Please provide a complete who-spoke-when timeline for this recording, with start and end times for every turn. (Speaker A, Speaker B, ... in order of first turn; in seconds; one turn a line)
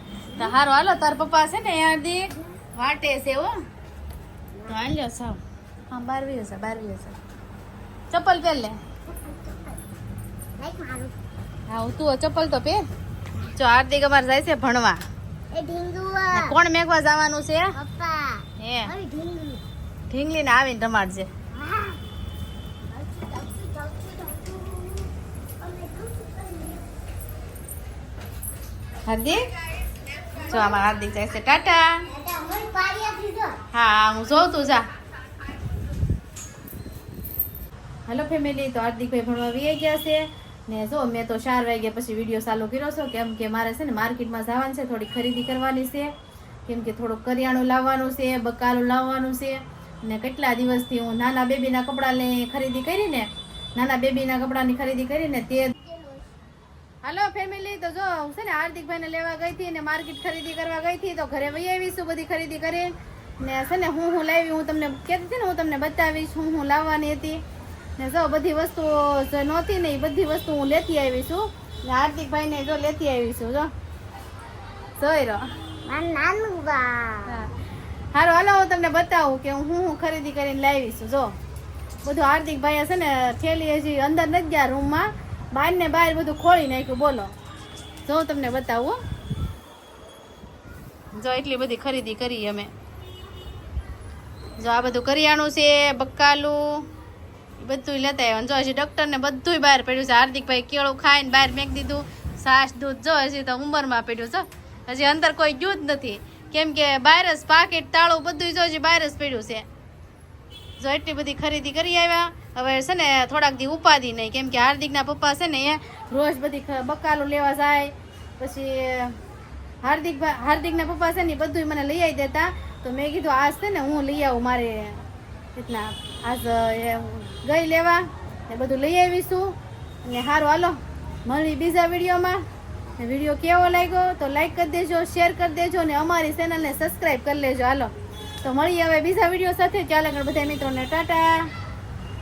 Speaker A: 0.3-0.6
Speaker B: 0.4-3.5
Speaker B: 4.7-5.4
Speaker B: 5.9-7.2
Speaker B: 8.1-8.8
Speaker A: 9.1-9.8
Speaker A: 10.6-11.2
Speaker B: 11.7-12.8
Speaker B: 13.6-15.0
Speaker A: 15.5-16.6
Speaker B: 16.3-17.7
Speaker A: 17.8-19.6
Speaker B: 18.6-18.9
Speaker B: 20.1-21.3
Speaker A: 21.5-22.0
Speaker A: 22.9-26.9
Speaker B: 29.1-29.4
Speaker B: 30.4-32.1
Speaker A: 30.5-30.8
Speaker A: 32.1-33.6
Speaker B: 33.7-34.8
Speaker B: 38.1-46.1
Speaker B: 46.7-55.7
Speaker A: 55.8-56.3
Speaker B: 57.0-62.9
Speaker B: 63.4-67.4
Speaker B: 68.0-73.7
Speaker B: 75.0-75.4
Speaker A: 75.8-77.4
Speaker B: 77.3-77.5
Speaker B: 78.1-81.3
Speaker B: 82.0-87.3
Speaker B: 88.1-89.0
Speaker B: 91.2-92.7
Speaker B: 94.6-96.8
Speaker B: 97.6-109.7
Speaker B: 110.8-119.2
Speaker B: 119.8-125.0
Speaker B: 125.6-129.5
Speaker B: 130.1-132.4
Speaker B: 133.0-137.9
Speaker B: 138.4-141.5